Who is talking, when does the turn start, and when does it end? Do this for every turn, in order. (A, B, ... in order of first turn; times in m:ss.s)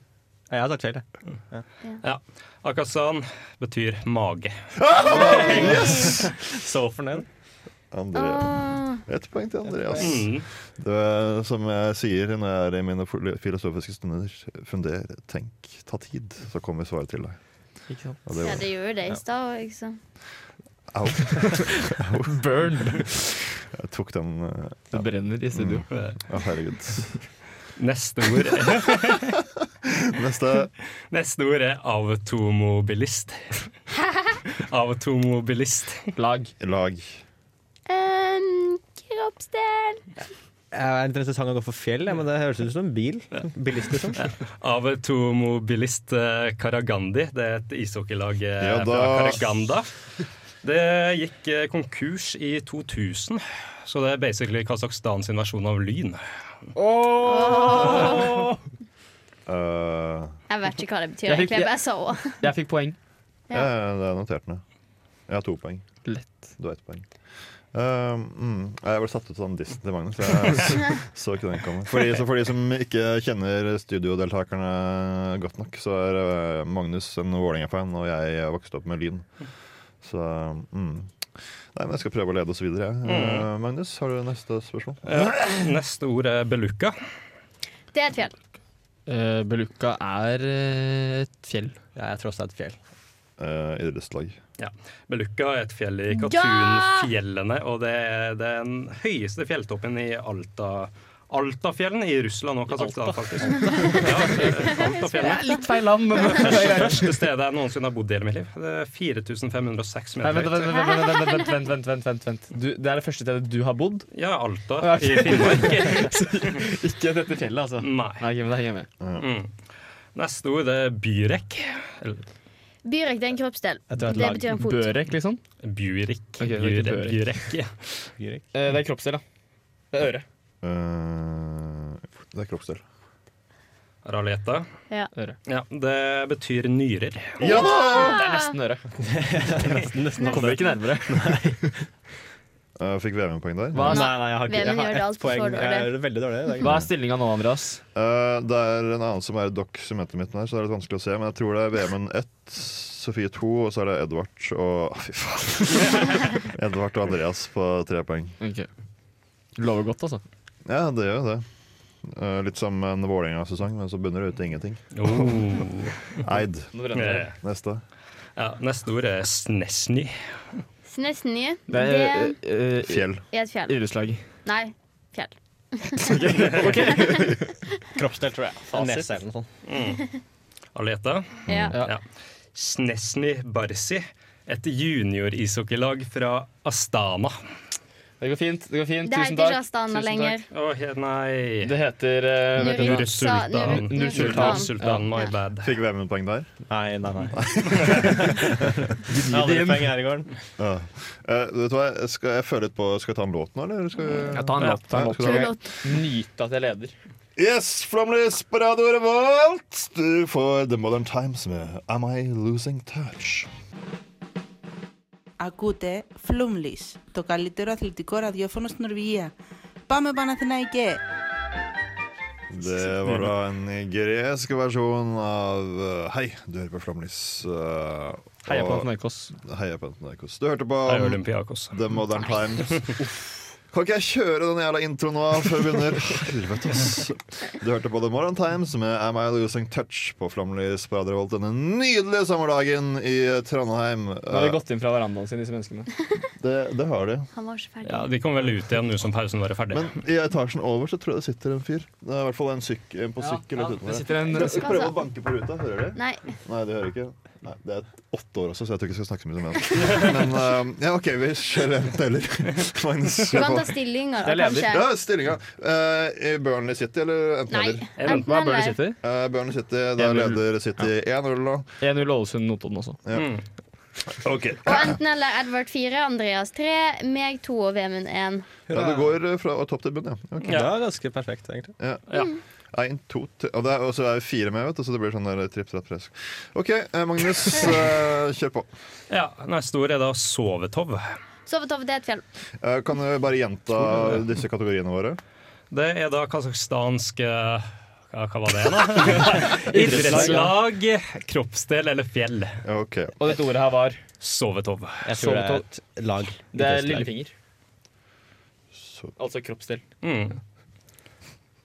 0:00.5-0:01.6 A
0:02.0-0:04.5 B
0:04.8-0:06.3 C
0:05.2-0:07.3 A
0:05.2-0:05.6 B
0:07.9-0:17.4 C
0:08.1-0:09.0 D
0:09.8-0:10.1 A
0:10.0-0:10.4 B
0:17.9-0:18.2 E
0:18.3-0:18.7 C
0:18.4-0:20.0 D
0:20.9-0:27.2 C
0:21.4-0:21.7 E
0:22.3-0:23.2 E
0:24.9-0:25.9 E
0:25.9-0:26.2 B
0:27.8-0:29.4 B
0:29.8-0:30.7 C
0:31.1-0:33.6 B
0:34.5-0:36.1 B
0:36.2-0:36.5 E
0:36.6-0:37.2 C
0:37.9-0:40.0 D
0:40.7-0:44.3 A
0:44.2-0:49.9 B
0:48.6-0:49.5 C
0:50.6-0:56.2 B
0:56.8-0:58.6 E
0:57.2-0:58.4 D
0:59.5-1:00.3 C
1:00.5-1:02.4 D
1:01.3-1:01.8 E
1:02.3-1:03.0 E
1:03.5-1:04.6 C
1:05.3-1:06.0 C
1:06.0-1:06.5 E
1:06.6-1:07.1 C
1:07.7-1:19.3 C
1:20.0-1:21.1 C
1:21.7-1:25.3 C
1:23.0-1:23.5 B
1:25.1-1:27.0 B
1:27.9-1:28.4 D
1:29.1-1:31.8 E
1:32.0-1:32.8 A
1:33.4-1:34.4 C
1:34.6-1:45.6 B
1:36.1-1:37.1 D
1:42.8-1:43.1 E
1:43.6-1:44.1 E
1:43.7-1:44.0 D
1:45.0-1:45.6 D
1:45.2-1:47.1 E
1:46.3-1:50.8 B
1:50.2-1:54.1 E
1:50.7-1:51.5 D
1:54.1-1:56.2 B
1:54.8-1:58.9 E
1:57.8-1:58.2 B
1:59.0-1:59.3 C
1:59.2-1:59.5 B
2:00.2-2:02.2 B
2:02.8-2:04.9 D
2:03.9-2:04.5 A
2:04.6-2:05.4 E
2:05.6-2:07.7 B
2:06.4-2:07.2 E
2:08.2-2:08.4 A
2:08.5-2:09.2 E
2:09.9-2:10.2 E
2:10.6-2:12.8 C
2:14.0-2:14.7 B
2:15.5-2:17.4 B
2:17.4-2:18.2 C
2:17.4-2:18.5 D
2:17.6-2:18.8 E
2:19.0-2:21.7 A
2:20.2-2:20.5 D
2:20.2-2:21.7 E
2:22.8-2:24.0 C
2:23.8-2:26.8 A
2:23.9-2:26.1 D
2:26.6-2:27.8 E
2:28.0-2:38.4 C
2:38.4-2:38.7 E
2:39.6-2:40.2 E
2:40.7-2:41.4 C
2:42.0-2:45.3 C
2:45.0-2:46.2 B
2:46.2-2:46.7 C
2:46.7-2:47.3 E
2:47.0-2:47.3 B
2:47.3-2:47.8 C
2:48.4-2:50.2 B
2:50.9-2:52.4 D
2:51.7-2:53.1 E
2:52.9-2:53.2 C
2:53.3-2:53.8 D
2:53.7-2:54.2 E
2:54.4-2:56.2 D
2:56.0-2:57.5 E
2:56.9-2:57.3 D
2:58.0-2:59.5 A
2:58.7-2:59.2 E
2:59.6-3:00.0 B
3:00.8-3:02.0 B
3:01.5-3:01.8 C
3:01.5-3:01.7 D
3:02.6-3:07.4 B
3:08.2-3:10.4 E
3:09.0-3:10.5 D
3:10.5-3:11.7 B
3:11.6-3:13.1 E
3:12.6-3:15.3 D
3:12.6-3:15.7 B
3:13.7-3:15.1 E
3:15.6-3:16.6 C
3:16.7-3:18.7 A
3:17.4-3:18.4 C
3:19.1-3:20.0 E
3:19.3-3:20.3 A
3:20.6-3:25.6 C
3:24.3-3:26.9 E
3:25.2-3:25.6 D
3:27.4-3:33.5 C
3:35.4-3:39.3 F
3:39.9-3:41.0 F
3:42.5-3:48.9 C
3:48.5-3:49.4 E
3:49.4-3:53.1 C
3:50.9-3:51.8 B
3:53.7-4:04.6 C
4:04.3-4:05.9 E
4:06.4-4:07.3 C
4:07.4-4:08.1 D
4:07.8-4:09.9 B
4:09.7-4:23.8 C
4:13.2-4:14.7 E
4:14.3-4:15.0 D
4:16.0-4:16.4 D
4:23.3-4:24.9 D
4:24.2-4:24.8 E
4:24.7-4:27.9 C
4:27.5-4:28.8 D
4:28.0-4:28.3 B
4:28.1-4:29.0 E
4:29.0-4:31.7 C
4:30.0-4:30.4 E
4:31.8-4:33.0 E
4:33.1-4:33.4 B
4:34.1-4:35.0 C
4:34.6-4:38.5 D
4:38.7-4:39.0 A
4:38.7-4:40.6 C
4:40.5-4:41.7 A
4:42.7-4:48.7 C
4:49.1-4:51.1 B
4:51.5-4:52.2 D
4:52.6-4:55.2 C
4:55.7-5:02.6 B
4:59.1-5:00.5 E
4:59.8-5:00.5 A
5:02.6-5:03.2 C
5:03.2-5:04.0 E
5:04.2-5:05.0 B
5:05.0-5:07.1 A
5:05.2-5:05.7 E
5:06.5-5:07.3 E
5:08.7-5:09.1 C
5:09.2-5:09.8 E
5:10.0-5:10.4 B